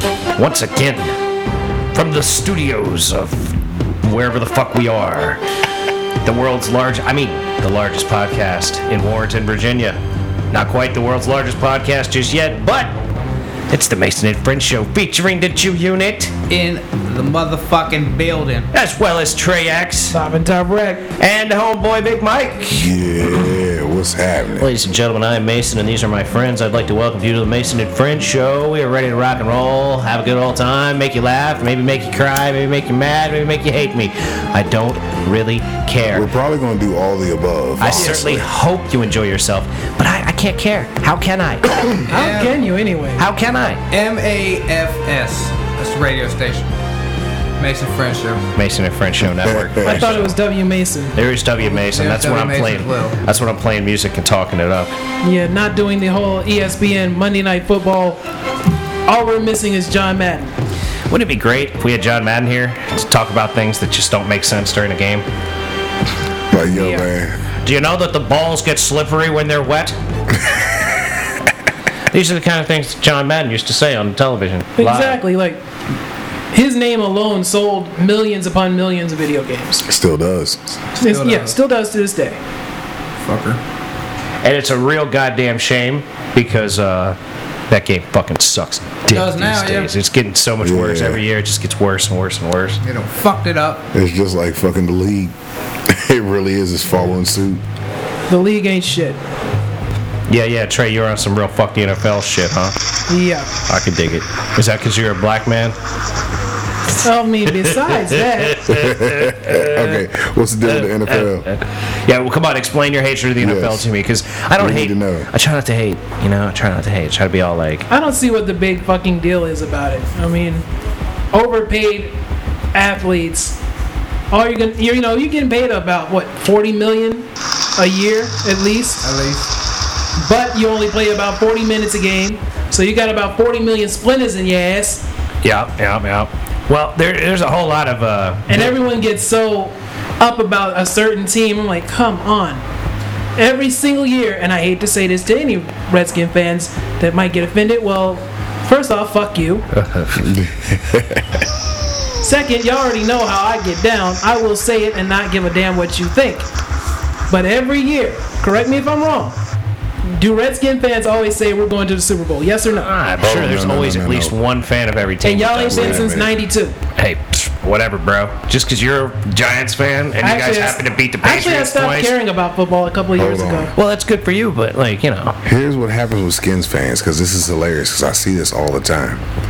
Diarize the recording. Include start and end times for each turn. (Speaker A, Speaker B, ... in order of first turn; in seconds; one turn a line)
Speaker A: 0.4-1.1
Speaker A: 1.9-5.4
Speaker A: 6.2-10.0
Speaker A: 10.5-12.9
Speaker A: 13.7-16.3
Speaker B: 16.5-18.7
Speaker A: 18.7-20.2
Speaker C: 20.1-21.1
Speaker A: 21.2-22.9
Speaker D: 22.7-24.7
Speaker A: 24.6-36.3
Speaker D: 36.1-38.5
Speaker A: 37.8-42.0
Speaker C: 37.9-38.3
Speaker B: 42.1-42.6
Speaker C: 42.1-43.2
Speaker A: 43.2-43.8
Speaker B: 43.9-46.7
Speaker B: 47.6-48.5
Speaker A: 48.5-50.3
Speaker D: 49.2-50.2
Speaker C: 49.8-51.2
Speaker A: 51.2-54.9
Speaker B: 51.6-53.2
Speaker C: 55.2-58.2
Speaker C: 59.1-60.5
Speaker A: 61.1-65.3
Speaker D: 66.5-67.4
Speaker C: 66.6-67.1
Speaker A: 67.7-70.0
Speaker D: 70.5-71.1
Speaker A: 72.1-75.2
Speaker C: 74.8-75.6
Speaker C: 76.5-79.8
Speaker D: 79.9-80.6
Speaker B: 81.0-81.6
Speaker C: 81.0-82.4
Speaker B: 83.2-83.6
Speaker A: 84.4-87.2
Speaker A: 87.7-92.8
Speaker B: 89.1-89.9
Speaker D: 90.6-91.2
Speaker B: 92.8-93.9
Speaker D: 93.9-95.3
Speaker D: 95.9-97.6
Speaker C: 98.3-99.2
Speaker A: 100.3-102.8
Speaker C: 103.1-103.5
Speaker A: 103.7-105.8
Speaker C: 107.0-108.7
Speaker A: 107.5-110.0
Speaker D: 108.7-111.5
Speaker A: 110.6-117.9
Speaker D: 113.4-113.9
Speaker D: 114.6-115.3
Speaker C: 117.9-120.7
Speaker C: 121.3-122.2
Speaker C: 122.7-123.6
Speaker C: 124.3-129.0
Speaker B: 129.0-129.5
Speaker C: 130.2-135.1
Speaker A: 135.4-138.8
Speaker C: 138.5-142.6
Speaker C: 143.4-149.7
Speaker A: 149.7-150.4
Speaker D: 150.2-151.5
Speaker C: 152.2-156.5
Speaker C: 157.3-159.4
Speaker C: 160.0-162.9
Speaker A: 162.8-166.1
Speaker D: 163.2-164.4
Speaker C: 165.2-166.8
Speaker D: 165.7-166.4
Speaker A: 167.0-172.2
Speaker C: 170.2-173.8
Speaker D: 173.2-173.7
Speaker A: 173.7-175.4
Speaker D: 175.4-179.2